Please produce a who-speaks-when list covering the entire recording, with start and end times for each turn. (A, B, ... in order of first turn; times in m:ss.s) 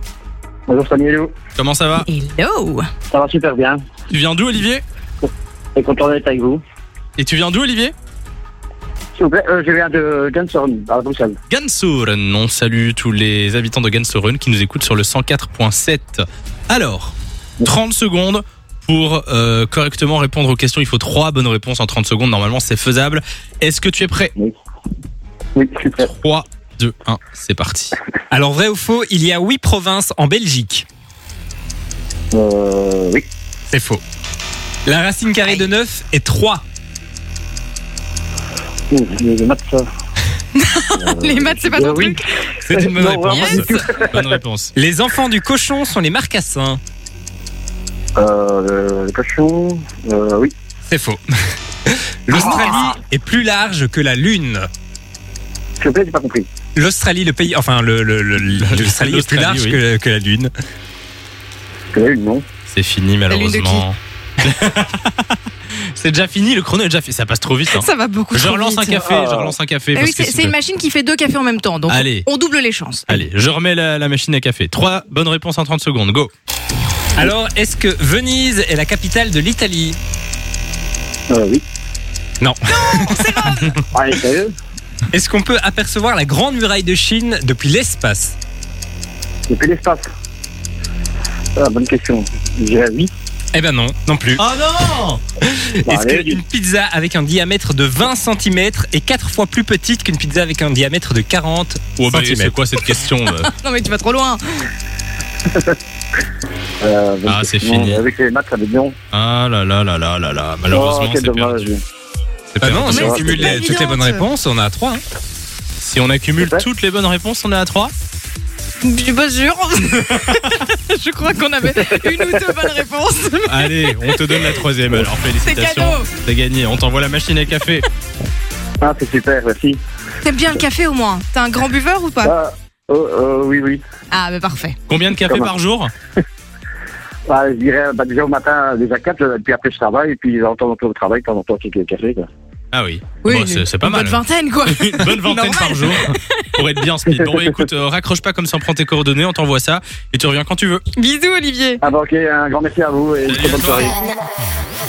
0:00.7-0:01.3 A
0:01.6-0:02.1 B
0:02.1-0:02.9 C
0:03.1-0:03.8 A
0:04.1-0:04.8 B
0:05.8-0:06.6 A
0:07.2-0:07.9 B
0:09.2-0:11.4 A
0:11.5-0:24.3 B
0:25.6-0:26.1 A
0:26.0-0:28.0 B
0:28.3-0:30.8 D
0:32.3-0:33.2 A
0:33.7-0:34.0 D
0:34.9-0:36.6 D
0:38.9-0:39.9 A
0:40.6-0:42.2 C
0:41.0-0:44.3 A
0:42.6-0:43.6 D
0:43.4-0:44.7 B
0:44.8-0:46.8 D
0:48.2-0:50.5 A
0:50.9-0:51.2 D
0:51.9-0:54.7 D
0:52.3-0:52.9 A
0:55.8-0:56.5 A
0:56.8-1:00.5 D
0:58.6-0:59.8 B
1:01.9-1:02.4 A
1:02.7-1:05.3 B
1:03.3-1:03.8 C
1:05.9-1:10.6 B
1:07.7-1:09.1 C
1:09.1-1:09.5 A
1:10.0-1:13.2 C
1:11.9-1:12.3 B
1:13.1-1:16.3 B
1:17.2-1:20.0 D
1:21.3-1:21.6 A
1:22.4-1:23.4 D
1:22.7-1:23.8 C
1:23.9-1:24.5 A
1:25.1-1:28.4 D
1:29.5-1:30.1 A
1:31.6-1:33.1 A
1:33.5-1:34.4 D
1:34.4-1:35.2 B
1:35.4-1:42.6 D
1:35.9-1:36.4 A
1:42.0-1:43.5 B
1:43.5-1:44.6 C
1:46.8-1:49.0 A
1:47.3-1:48.0 B
1:49.1-1:51.7 B
1:50.7-1:51.8 A
1:52.6-1:55.0 D
1:52.6-1:53.1 B
1:52.8-1:53.6 A
1:52.9-1:54.3 C
1:55.8-1:57.9 B
1:56.4-1:56.6 A
1:58.8-2:04.4 C
2:03.5-2:07.8 B
2:05.4-2:06.1 C
2:08.8-2:09.8 A
2:10.2-2:12.4 C
2:12.2-2:13.8 A
2:14.1-2:14.8 C
2:14.9-2:15.9 B
2:15.2-2:15.5 A
2:17.3-2:22.3 A
2:22.7-2:30.8 B
2:23.2-2:26.4 C
2:27.1-2:27.5 A
2:31.0-2:31.8 C
2:31.8-2:34.0 A
2:33.3-2:34.0 B